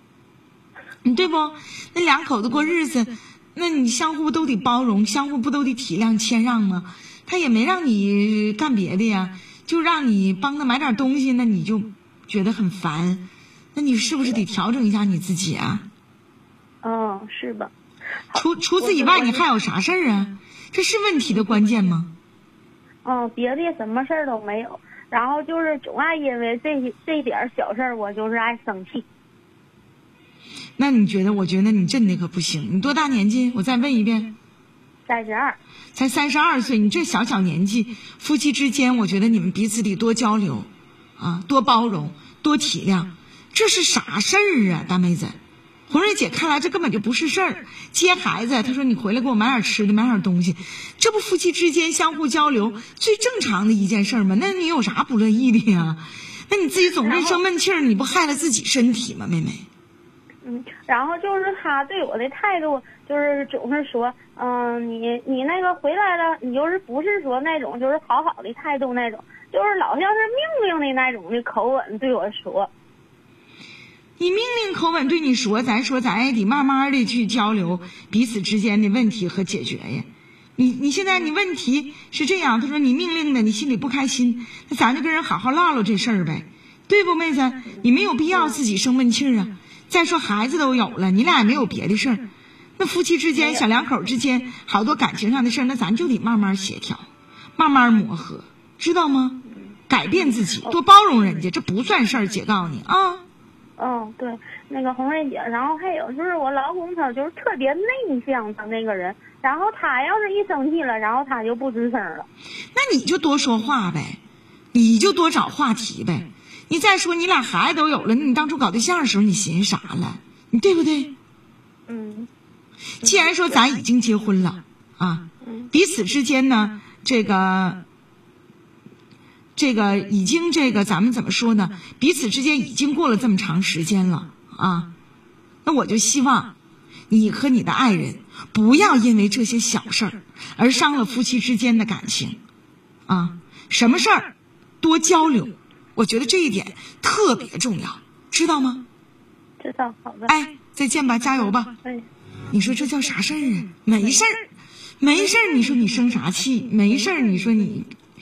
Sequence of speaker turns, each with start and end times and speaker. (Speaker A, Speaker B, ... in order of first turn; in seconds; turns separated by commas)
Speaker A: 1.0-15.9, Speaker B: 16.8-17.7, Speaker B: 18.3-19.4, Speaker A: 18.3-22.1, Speaker B: 23.0-29.1, Speaker A: 30.8-34.3, Speaker B: 35.1-35.6, Speaker A: 35.9-45.4, Speaker A: 45.9-59.6, Speaker B: 57.0-57.4, Speaker B: 60.4-72.7, Speaker A: 74.2-97.0, Speaker A: 97.6-103.2, Speaker B: 103.8-112.3, Speaker A: 112.7-114.2, Speaker A: 114.7-121.1, Speaker B: 121.9-122.3, Speaker A: 123.0-127.8, Speaker A: 129.6-134.9, Speaker A: 135.6-136.5, Speaker A: 137.1-142.4, Speaker A: 143.1-148.8, Speaker B: 149.6-150.3, Speaker A: 150.3-151.7, Speaker A: 152.5-154.4, Speaker A: 155.0-157.9